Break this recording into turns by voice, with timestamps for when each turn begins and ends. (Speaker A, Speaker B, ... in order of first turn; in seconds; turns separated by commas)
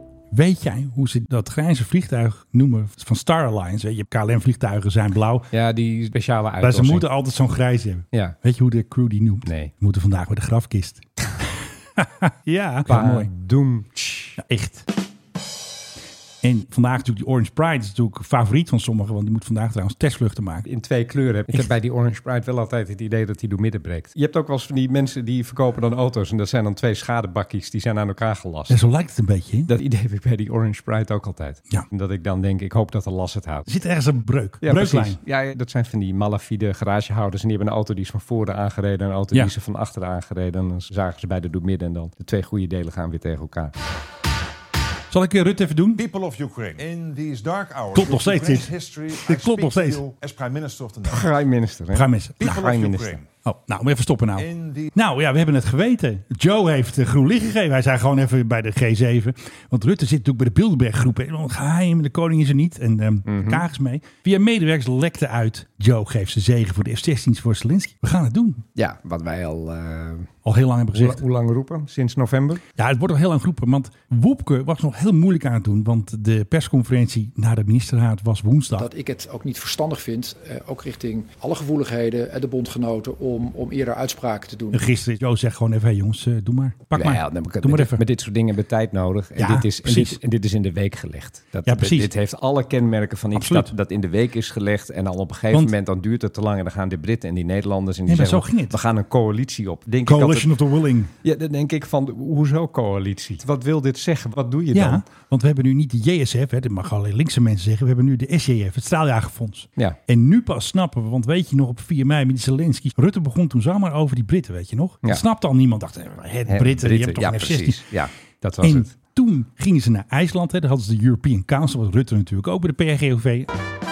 Speaker A: 0.3-5.5, Speaker B: 5.5-7.1, Speaker A: 6.6-13.3, Speaker B: 9.4-9.7, Speaker B: 12.8-14.4, Speaker A: 14.4-14.8, Speaker A: 16.4-20.6, Speaker B: 20.6-28.8, Speaker A: 28.7-29.7, Speaker B: 29.7-33.7, Speaker A: 33.7-35.2, Speaker B: 34.6-43.7, Speaker A: 45.1-46.0, Speaker C: 46.0-51.3, Speaker A: 47.9-50.0, Speaker B: 51.1-53.2, Speaker A: 51.9-52.7, Speaker C: 52.4-53.3, Speaker A: 53.4-68.6, Speaker C: 54.4-54.9, Speaker B: 63.2-63.6, Speaker B: 68.8-70.3, Speaker A: 70.4-71.2, Speaker B: 70.9-72.6, Speaker A: 72.8-78.9, Speaker D: 78.8-84.8, Speaker A: 84.7-88.0, Speaker B: 86.9-100.5, Speaker A: 89.4-90.2, Speaker A: 91.7-92.1, Speaker A: 93.3-93.7, Speaker A: 98.1-98.8, Speaker A: 100.0-101.1, Speaker B: 101.2-105.0, Speaker A: 104.7-117.8, Speaker B: 116.5-118.9, Speaker A: 118.6-123.5